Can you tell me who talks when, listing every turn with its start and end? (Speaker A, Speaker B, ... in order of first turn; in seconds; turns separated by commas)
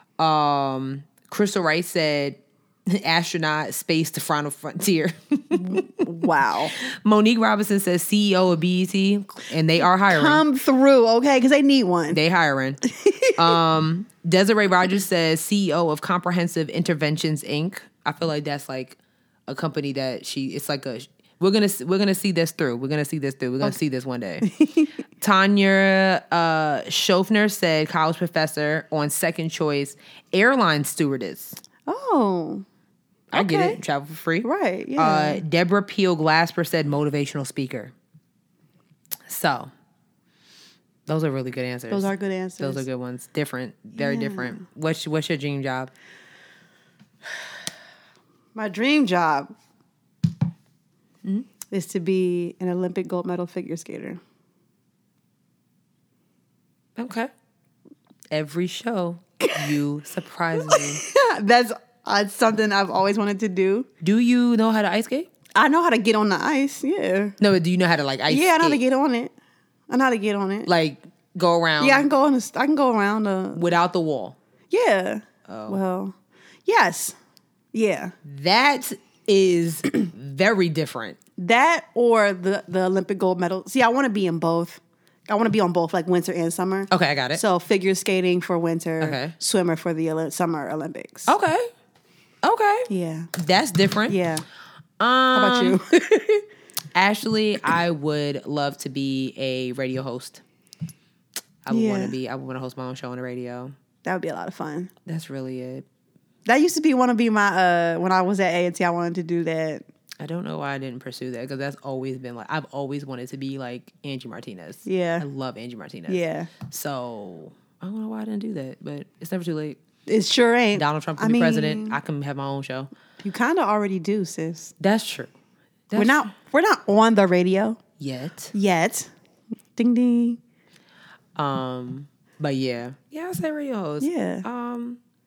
Speaker A: 0.2-6.0, Speaker B: 5.5-6.7, Speaker A: 6.8-10.4, Speaker B: 10.1-12.2, Speaker A: 12.1-24.5, Speaker B: 12.9-13.5, Speaker B: 24.4-24.9, Speaker A: 25.2-31.6, Speaker B: 31.9-32.6, Speaker A: 33.3-37.9, Speaker B: 33.3-33.8, Speaker B: 34.4-35.4, Speaker A: 39.3-39.7, Speaker A: 41.1-45.9, Speaker B: 41.9-42.9, Speaker B: 44.0-44.6, Speaker B: 48.5-49.5, Speaker B: 51.7-54.2, Speaker A: 57.0-57.3, Speaker A: 58.3-61.0, Speaker B: 60.6-63.9, Speaker A: 64.0-65.3, Speaker B: 65.5-67.3, Speaker A: 67.4-68.8, Speaker B: 68.3-69.3, Speaker B: 69.9-70.7, Speaker A: 70.7-72.1, Speaker B: 71.8-73.6, Speaker A: 73.5-74.4, Speaker B: 74.7-76.2, Speaker A: 75.5-75.8, Speaker B: 76.7-77.2, Speaker B: 77.7-78.1, Speaker A: 78.2-81.2, Speaker B: 81.4-91.3, Speaker A: 86.9-87.4, Speaker A: 89.0-89.3, Speaker A: 91.3-91.7, Speaker A: 92.4-94.2, Speaker B: 92.9-93.3, Speaker B: 94.1-94.5, Speaker A: 95.0-95.8, Speaker B: 95.3-96.5, Speaker A: 97.0-100.4, Speaker A: 101.7-103.7, Speaker B: 101.7-102.2, Speaker B: 104.0-104.9, Speaker A: 105.1-105.8, Speaker B: 106.5-109.8, Speaker A: 110.2-119.8, Speaker B: 114.9-115.3, Speaker B: 116.1-116.5, Speaker B: 120.1-122.0, Speaker A: 120.8-122.9, Speaker B: 123.2-124.7, Speaker A: 124.8-125.3, Speaker A: 125.9-126.3, Speaker B: 126.0-127.8, Speaker A: 128.0-128.5, Speaker B: 128.5-129.1, Speaker B: 129.8-130.4, Speaker A: 131.4-135.0, Speaker B: 134.0-134.4